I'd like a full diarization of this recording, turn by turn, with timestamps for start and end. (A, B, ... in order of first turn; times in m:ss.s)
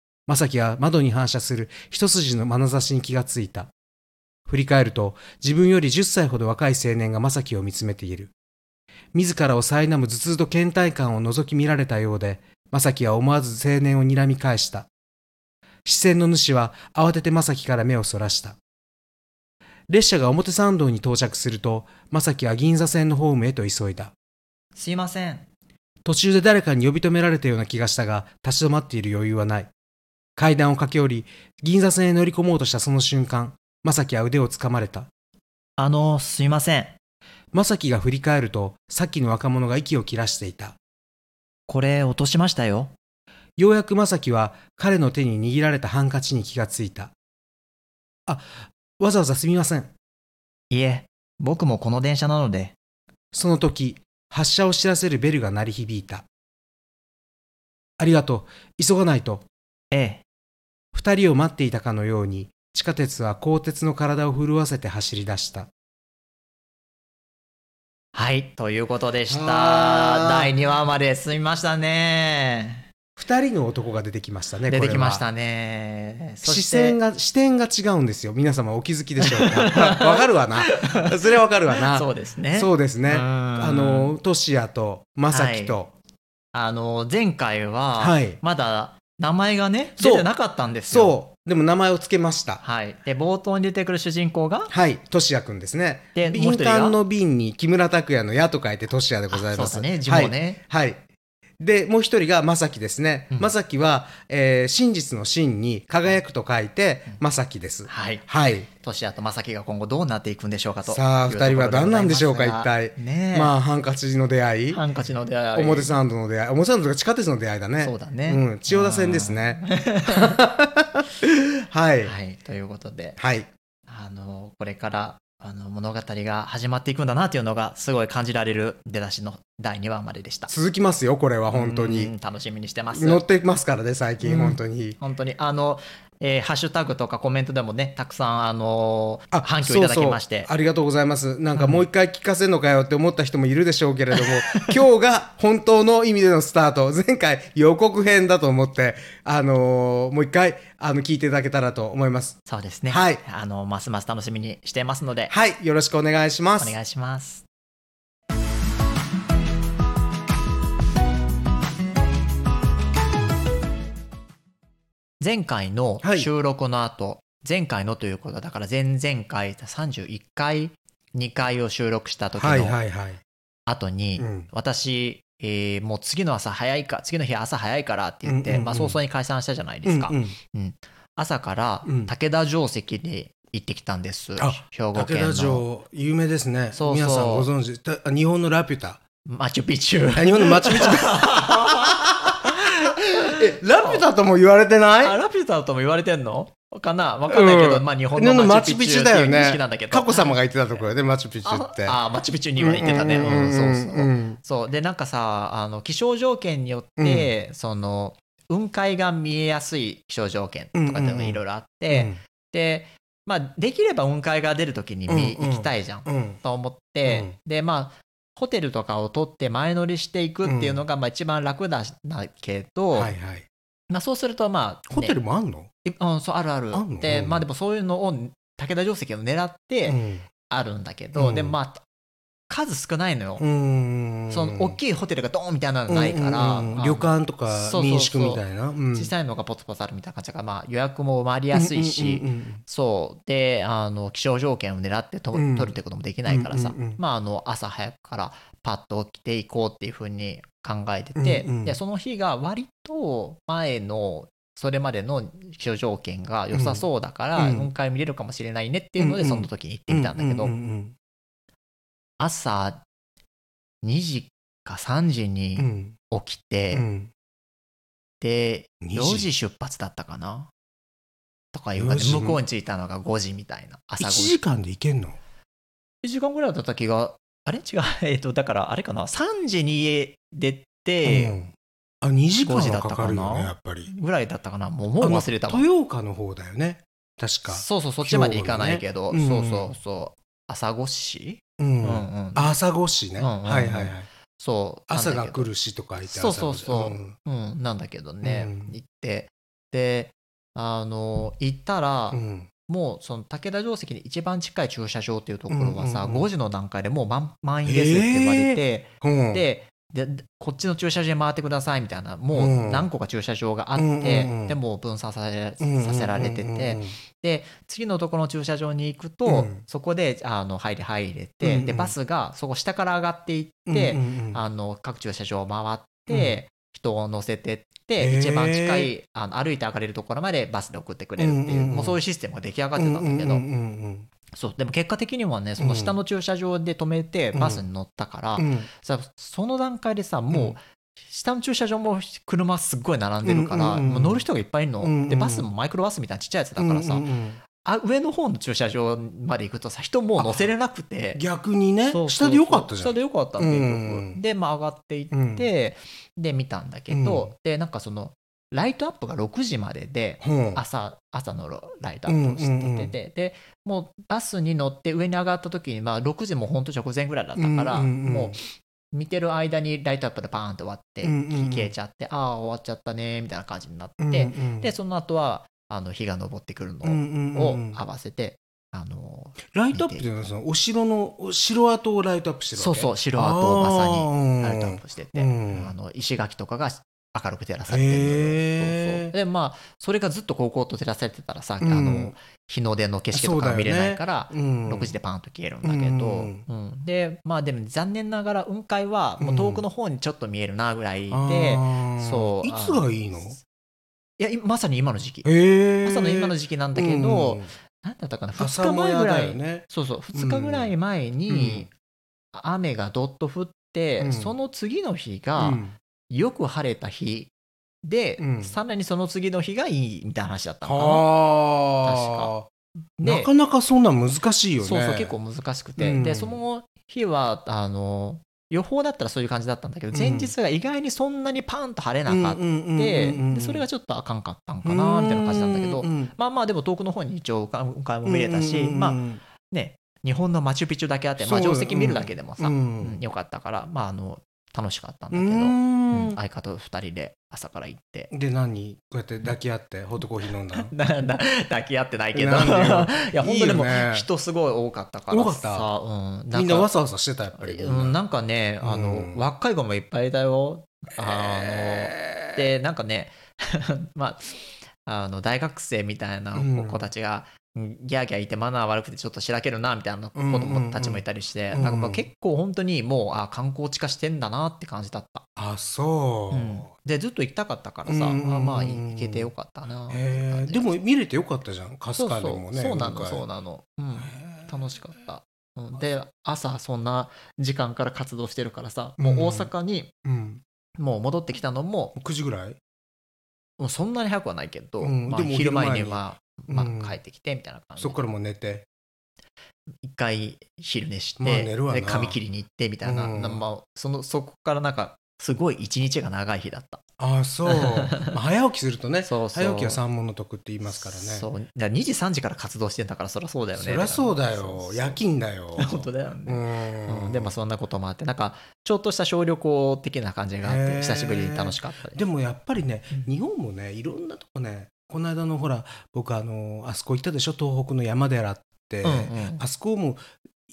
0:00.3-0:03.7 A
0:04.4-0:08.3 A
0:09.1-0:14.9 A
0:15.8-0:18.6 A
0:19.9-0:24.1 A
0:24.8-0:25.4 B
0:26.0-0:29.7 A
0:30.4-0:35.1 A
0:35.8-0:37.0 B
0:37.5-0:40.8 A
0:41.7-0:42.9 B
0:43.6-0:47.1 A
0:48.2-0:49.9 A
0:50.7-0:52.8 B
0:53.3-0:56.2 A
0:58.0-0:59.4 A
0:59.9-1:00.2 B
1:00.9-1:05.7 A
1:08.1-1:12.9 B
1:09.3-1:10.5 A
1:13.2-1:15.2 A
1:14.7-1:17.0 B
1:16.4-1:25.9 A
1:19.2-1:24.1 B
1:25.3-1:25.8 B
1:26.5-1:31.2 B
1:28.0-1:28.4 A
1:30.0-1:30.3 A
1:30.9-1:32.6 A
1:32.6-1:34.7 B
1:34.7-1:41.0 A
1:36.1-1:37.0 B
1:39.3-1:40.6 B
1:41.6-1:48.7 A
1:47.8-1:48.2 B
1:48.8-1:53.5 B
1:50.9-1:54.8 A
1:54.7-1:56.0 B
1:55.5-2:02.1 A
1:57.8-2:00.4 B
2:02.0-2:03.2 B
2:03.2-2:03.5 A
2:03.9-2:10.5 B
2:10.5-2:12.1 A
2:11.5-2:13.2 B
2:12.9-2:15.0 A
2:14.2-2:20.5 B
2:19.3-2:33.2 A
2:21.5-2:21.8 B
2:24.5-2:24.7 B
2:32.4-2:35.3 B
2:35.3-2:36.7 A
2:36.6-2:37.4 B
2:45.2-2:52.8 B
2:46.0-2:46.3 A
2:52.4-2:53.2 A
2:53.7-3:05.6 B
2:54.2-2:54.5 A
2:58.2-2:59.0 A
2:59.8-3:00.4 A
3:01.8-3:02.1 A
3:04.4-3:09.0 A
3:06.7-3:07.5 B
3:09.2-3:14.0 B
3:10.2-3:15.2 A
3:15.0-3:20.3 B
3:17.3-3:22.0 A
3:21.4-3:43.1 B
3:22.6-3:24.4 A
3:27.0-3:27.3 A
3:30.7-3:32.2 A
3:35.1-3:36.4 A
3:37.0-3:37.3 A
3:40.4-3:40.8 A
3:42.9-3:43.5 A
3:43.9-3:45.2 B
3:44.9-3:45.7 A
3:45.8-3:51.8 B
3:46.7-3:47.4 A
3:49.9-3:50.3 A
3:51.2-3:51.6 A
3:52.5-3:53.4 B
3:53.4-3:54.8 A
3:54.3-4:20.5 B
3:55.9-3:59.1 A
4:01.5-4:02.6 A
4:05.3-4:05.8 A
4:06.3-4:07.0 A
4:11.2-4:11.8 A
4:16.5-4:16.8 A
4:17.4-4:17.7 A
4:19.0-4:20.9 A
4:22.2-4:22.8 B
4:23.8-4:26.8 B
4:25.6-4:26.0 A
4:26.7-4:27.1 A
4:28.2-4:30.5 B
4:28.8-4:29.3 A
4:31.5-4:34.4 B
4:31.8-4:32.4 A
4:34.0-4:35.2 A
4:36.0-4:41.3 B
4:41.0-4:43.9 A
4:42.4-4:45.6 B
4:45.0-4:49.7 A
4:47.5-4:52.5 B
4:51.6-4:54.1 A
4:53.2-4:55.5 B
4:54.9-4:57.2 A
4:56.0-5:33.4 B
4:58.2-4:58.7 A
5:02.1-5:02.5 A
5:05.5-5:06.3 A
5:07.6-5:09.4 A
5:12.3-5:12.9 A
5:13.8-5:14.6 A
5:15.6-5:17.0 A
5:19.2-5:19.6 A
5:21.4-5:21.9 A
5:23.7-5:24.4 A
5:26.1-5:26.4 A
5:28.0-5:28.9 A
5:31.2-5:32.0 A
5:32.8-5:34.1 A
5:34.3-5:47.1 B
5:35.6-5:36.0 A
5:37.3-5:37.6 A
5:38.4-5:38.7 A
5:40.3-5:40.6 A
5:43.2-5:44.2 A
5:44.8-5:45.5 A
5:46.6-5:47.4 A
5:47.6-5:51.2 B
5:50.2-5:50.5 A
5:51.1-5:54.2 A
5:51.9-6:08.4 B
5:55.1-5:55.4 A
5:56.9-5:57.3 A
6:00.2-6:00.6 A
6:02.1-6:02.9 A
6:07.4-6:08.4 A
6:08.9-6:20.0 B
6:11.0-6:11.7 A
6:14.0-6:14.7 A
6:16.8-6:17.8 A
6:19.5-6:25.7 A
6:22.5-6:43.4 B
6:27.7-6:29.1 A
6:31.6-6:32.1 A
6:33.1-6:34.9 A
6:35.6-6:36.4 A
6:39.2-6:39.6 A
6:41.1-6:43.4 A
6:44.2-6:45.3 B
6:45.2-6:47.5 A
6:45.8-6:51.7 B
6:48.4-6:50.7 A
6:51.3-6:51.7 A
6:52.3-6:57.3 B
6:54.0-6:54.3 A
6:55.4-6:55.8 A
6:57.8-7:01.0 B
6:58.2-6:58.5 A
7:00.6-7:02.5 A
7:01.8-7:02.3 B
7:03.0-7:03.3 B
7:03.0-7:05.1 A
7:04.6-7:28.1 B
7:05.8-7:06.4 A
7:09.9-7:10.3 A
7:12.1-7:13.6 A
7:14.6-7:16.1 A
7:18.0-7:19.2 A
7:21.2-7:23.0 A
7:25.1-7:26.2 A
7:28.1-7:30.7 A
7:30.5-7:36.7 B
7:32.1-7:34.1 A
7:35.1-7:35.7 A
7:36.3-7:38.0 A
7:37.3-7:55.3 B
7:38.6-7:39.2 A
7:41.0-7:42.4 A
7:46.3-7:46.8 A
7:50.1-7:52.0 A
7:55.4-7:56.7 A
7:56.3-8:00.8 B
7:57.8-7:59.3 A
7:59.9-8:03.2 A
8:02.0-8:09.9 B
8:04.0-8:04.5 A
8:09.0-8:09.5 A
8:10.0-8:10.4 A
8:10.8-8:12.0 B
8:12.0-8:12.6 A
8:13.6-8:18.0 B
8:14.8-8:17.0 A
8:17.8-8:18.6 A
8:19.8-8:26.8 B
8:21.2-8:22.2 A
8:22.8-8:23.4 A
8:27.0-8:31.3 A
8:27.4-8:28.2 B
8:29.0-8:29.8 B
8:30.7-8:35.0 B
8:33.6-8:37.3 A
8:35.6-8:42.0 B
8:40.4-8:50.0 A
8:48.8-8:49.4 B